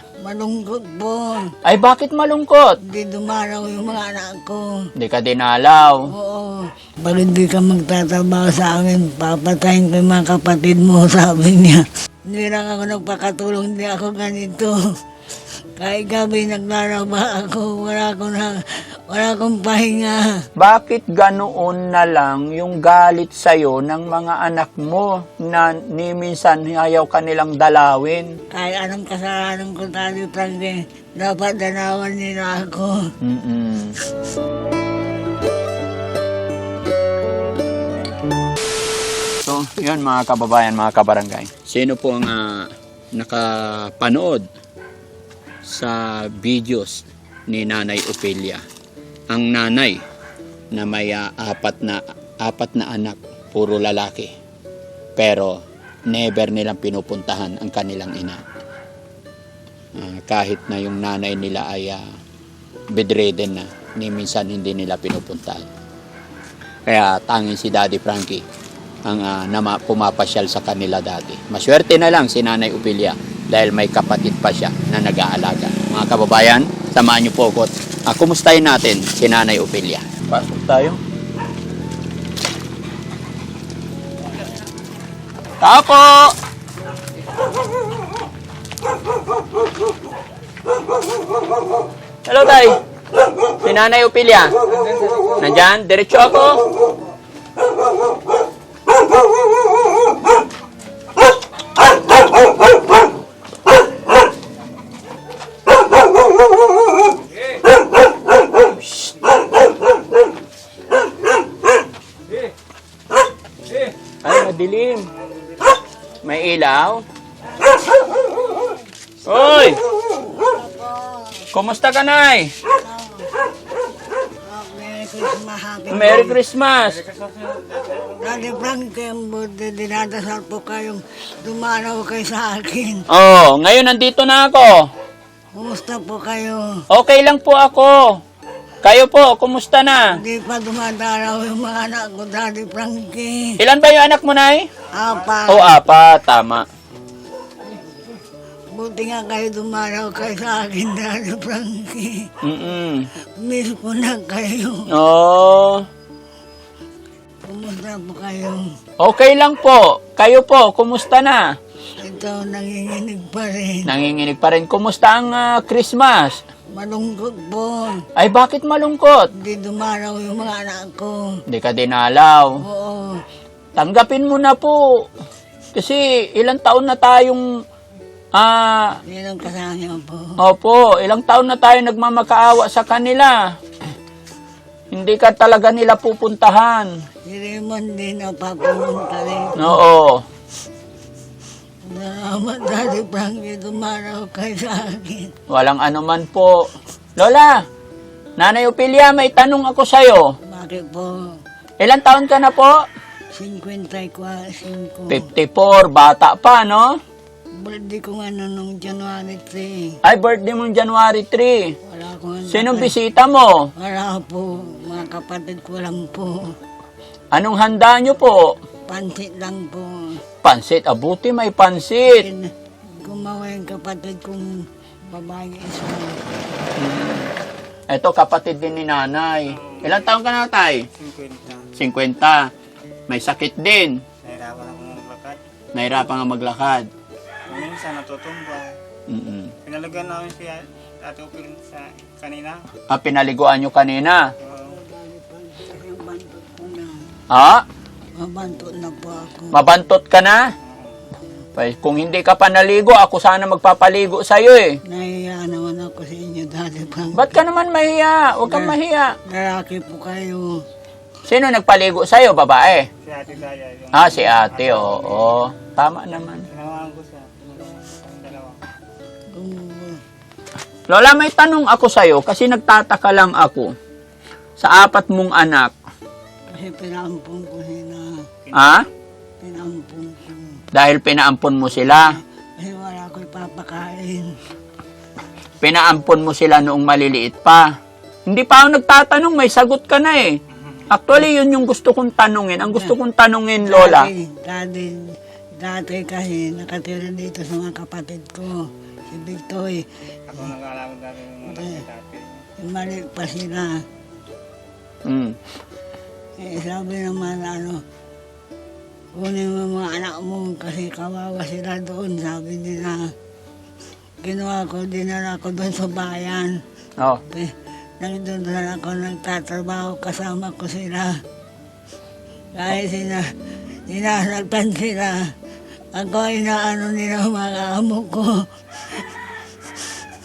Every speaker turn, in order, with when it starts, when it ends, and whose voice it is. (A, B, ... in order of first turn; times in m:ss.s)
0:00.2-0:01.5 A
0:01.6-0:02.8 B
0:02.8-0:04.7 A
0:05.0-0:06.1 B
0:06.1-0:14.8 A
0:15.8-0:20.2 A
0:20.6-0:28.4 B
0:28.5-0:33.0 A
0:33.2-0:34.0 B
0:39.4-0:44.4 B
0:45.6-0:48.6 B
0:49.3-0:50.0 B
0:50.7-0:54.3 B
0:55.2-0:58.4 B
1:00.0-1:02.0 B
1:02.9-1:05.7 B
1:06.9-1:08.4 B
1:09.0-1:21.0 B
1:25.6-1:26.3 B
1:32.2-1:32.8 B
1:33.6-1:36.6 B
1:54.2-1:55.1 B
1:56.2-1:57.0 B
1:59.2-1:59.8 B
2:00.4-2:01.2 A
2:01.5-2:02.6 B
2:02.7-2:03.3 A
2:04.5-2:06.4 A
2:05.9-2:07.1 B
2:07.1-2:08.0 C
2:08.2-2:13.0 A
2:13.1-2:14.9 B
2:15.5-2:16.6 A
2:16.9-2:18.2 B
2:18.8-2:20.2 B
2:20.1-2:23.6 A
2:23.6-2:24.7 B
2:25.0-2:25.8 A
2:25.5-2:26.7 B
2:28.7-2:32.3 A
2:32.4-2:33.1 B
2:33.4-2:34.8 A
2:34.9-2:35.8 B
2:37.4-2:38.6 A
2:39.0-2:41.5 B
2:42.0-2:43.9 A
2:43.8-2:46.4 B
2:46.7-2:48.0 A
2:48.2-2:49.3 B
2:49.4-2:51.3 A
2:51.5-2:52.6 B
2:52.6-2:53.2 A
2:53.8-2:55.1 B
2:55.7-2:57.4 B
2:58.3-2:59.0 B
2:59.1-3:00.4 A
3:00.4-3:03.5 B
3:04.9-3:06.9 B
3:07.3-3:09.8 A
3:09.6-3:10.2 B
3:11.9-3:15.3 A
3:15.5-3:17.6 B
3:18.4-3:20.3 B
3:20.4-3:21.3 A
3:21.8-3:22.8 B
3:23.3-3:25.3 A
3:25.1-3:27.0 B
3:27.6-3:30.0 A
3:30.0-3:31.8 B
3:31.9-3:32.9 A
3:32.5-3:33.7 B
3:33.8-3:36.5 A
3:37.3-3:38.6 B
3:38.9-3:40.2 A
3:40.4-3:42.2 B
3:42.0-3:46.3 A
3:46.8-3:47.3 B
3:47.9-3:50.9 B
3:49.6-3:50.1 C
3:50.9-3:51.7 C
3:51.8-3:52.5 B
3:53.1-3:54.0 B
3:54.2-3:55.4 C
3:55.7-3:56.9 B
3:57.5-3:58.8 C
3:59.1-3:59.5 B
3:59.6-4:02.7 C
4:02.9-4:04.3 B
4:04.4-4:04.8 C
4:04.7-4:07.0 A
4:07.3-4:07.6 B
4:08.2-4:09.6 A
4:09.5-4:10.5 B
4:11.6-4:14.8 B
4:14.9-4:17.4 A
4:17.1-4:19.2 B
4:18.5-4:20.6 A
4:21.3-4:22.9 B
4:23.0-4:25.4 C
4:23.9-4:26.5 B
4:26.4-4:28.6 C
4:29.3-4:30.0 A
4:30.9-4:33.7 B
4:34.6-4:35.7 B
4:36.5-4:38.1 A
4:38.5-4:38.8 C
4:38.5-4:38.9 B
4:39.4-4:40.6 A
4:40.7-4:42.2 B
4:41.9-4:44.4 A
4:45.6-4:47.8 B
4:48.3-4:54.1 B
4:52.7-4:53.0 A
4:53.6-4:59.9 A
5:00.3-5:02.4 C
5:01.5-5:01.8 A
5:02.6-5:03.8 A
5:05.0-5:05.4 B
5:06.4-5:07.8 A
5:09.2-5:13.1 A
5:14.2-5:16.6 A
5:17.3-5:21.2 A
5:22.5-5:23.3 A
5:23.9-5:25.3 A
5:26.0-5:29.0 A